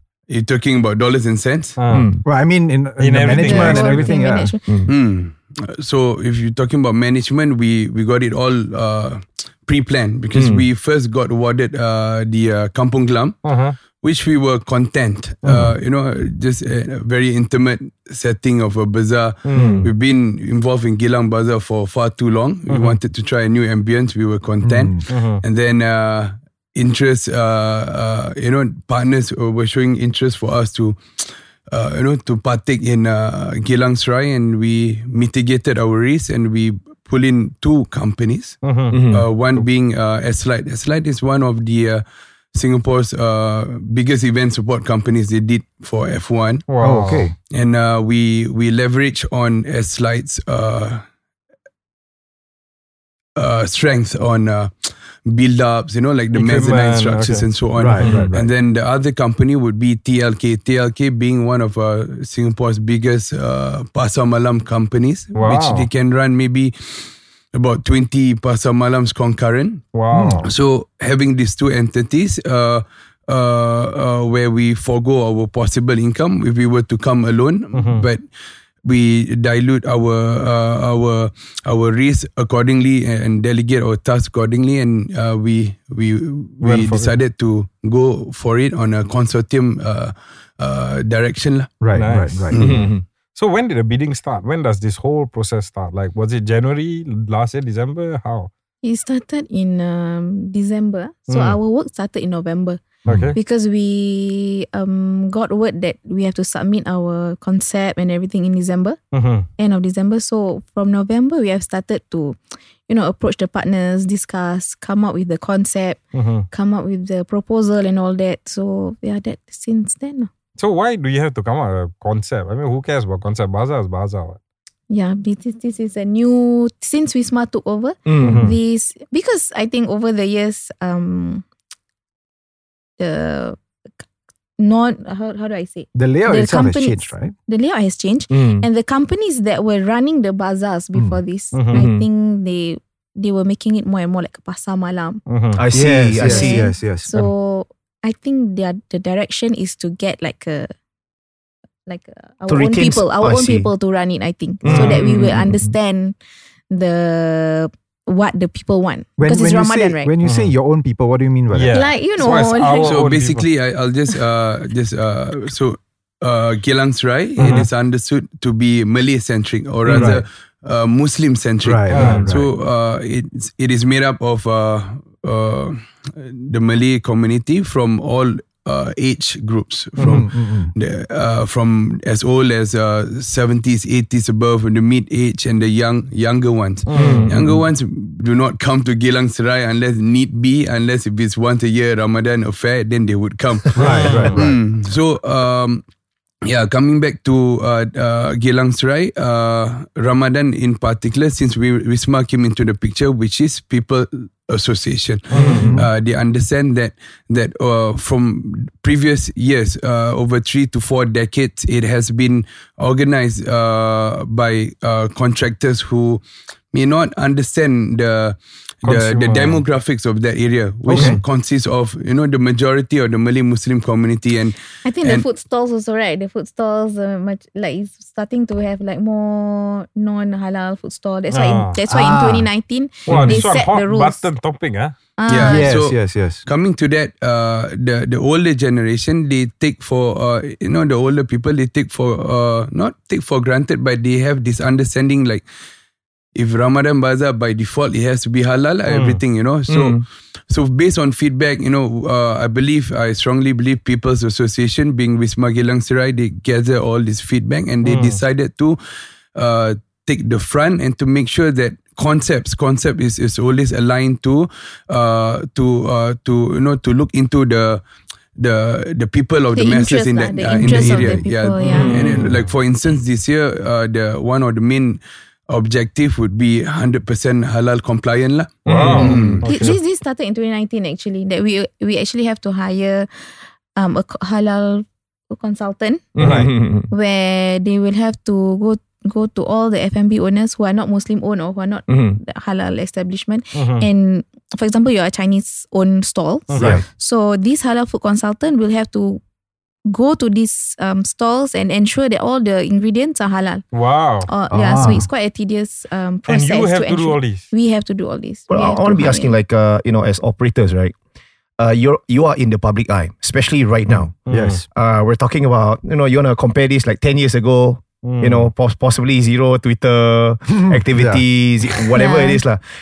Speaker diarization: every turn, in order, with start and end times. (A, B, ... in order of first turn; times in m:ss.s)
0:00.3-0:01.8 A
0:01.8-0:02.2 B
0:01.9-0:02.2 C
0:02.2-0:04.5 D
0:03.0-0:04.2 B
0:03.4-0:04.6 E
0:04.7-0:04.9 C
0:04.9-0:13.4 A
0:10.3-0:10.6 C
0:13.4-0:13.8 B
0:13.9-0:46.7 A
0:19.5-0:19.9 B
0:19.5-0:19.9 C
0:22.7-0:23.0 B
0:24.6-0:25.0 D
0:25.1-0:25.4 B
0:38.6-0:39.0 B
0:38.9-0:39.2 C
0:46.7-0:47.3 B
0:46.8-0:47.3 D
0:47.5-0:51.0 A
0:53.4-1:09.8 A
0:56.3-0:58.3 B
0:57.8-0:58.5 D
1:05.3-1:05.9 B
1:09.9-1:10.5 B
1:10.1-1:10.5 D
1:10.4-1:18.2 A
1:17.7-1:18.1 B
1:18.8-1:31.8 A
1:26.6-1:27.2 B
1:31.8-1:32.5 D
1:31.9-1:38.5 B
1:32.6-1:33.0 C
1:38.8-1:42.8 E
1:41.3-1:41.6 B
1:43.0-1:43.4 B
1:43.4-1:49.0 E
1:49.1-1:49.5 B
1:49.6-1:52.4 E
1:52.9-2:00.3 E
1:56.1-1:56.5 B
2:00.6-2:04.4 B
2:04.9-2:11.4 E
2:08.1-2:08.5 C
2:08.2-2:08.6 B
2:13.0-2:13.6 E
2:14.6-2:25.2 E
2:15.9-2:17.4 D
2:18.3-2:18.7 C
2:21.5-2:21.9 B
2:21.7-2:22.1 C
2:25.3-2:25.6 B
2:25.6-2:26.7 C
2:25.7-2:27.1 D
2:26.2-2:30.7 E
2:31.9-2:36.2 E
2:32.5-2:33.7 C
2:34.6-2:35.7 C
2:34.6-2:35.3 B
2:36.7-2:40.1 E
2:39.2-2:41.8 D
2:40.2-2:40.5 B
2:41.5-2:43.5 B
2:41.7-2:43.0 E
2:42.8-3:15.8 A
2:47.4-2:47.7 B
2:49.9-2:50.2 D
2:51.6-2:52.5 D
2:51.9-2:52.3 B
3:00.0-3:00.2 B
3:00.0-3:00.7 D
3:06.9-3:07.6 B
3:07.0-3:07.6 D
3:13.8-3:14.5 B
3:13.8-3:14.6 D
3:16.4-3:36.2 A
3:25.3-3:25.8 B
3:25.3-3:25.9 D
3:36.7-3:45.2 A
3:38.8-3:39.6 B
3:40.9-3:41.2 D
3:44.8-3:54.3 E
3:51.3-3:51.8 B
3:51.9-3:52.5 D
3:53.1-3:55.0 B
3:55.2-3:55.7 E
3:55.3-4:05.4 A
3:55.4-3:56.4 D
4:06.4-4:18.8 A
4:08.9-4:09.2 B
4:09.7-4:10.0 C
4:17.8-4:18.2 B
4:19.4-4:27.8 A
4:28.4-4:39.4 A
4:29.5-4:31.9 E
4:30.6-4:32.5 B
4:38.6-4:39.8 B
4:39.0-4:39.3 C
4:39.4-4:43.1 E
4:43.8-4:46.1 E
4:46.2-4:46.9 C
4:46.2-4:46.5 B
4:46.9-4:59.2 E
4:51.9-4:52.2 C
4:53.6-4:53.9 B
4:56.5-4:56.8 B
4:56.6-4:56.8 C
4:59.9-5:03.6 E
5:03.7-5:04.3 B
5:04.2-5:09.4 E
5:04.5-5:05.1 D
5:06.3-5:07.5 B
5:08.5-5:10.9 C
5:11.6-5:14.2 C
5:13.9-5:14.6 D
5:14.3-5:14.6 B
5:14.7-5:22.6 C
5:18.0-5:18.5 B
5:20.5-5:21.2 D
5:22.0-5:22.4 E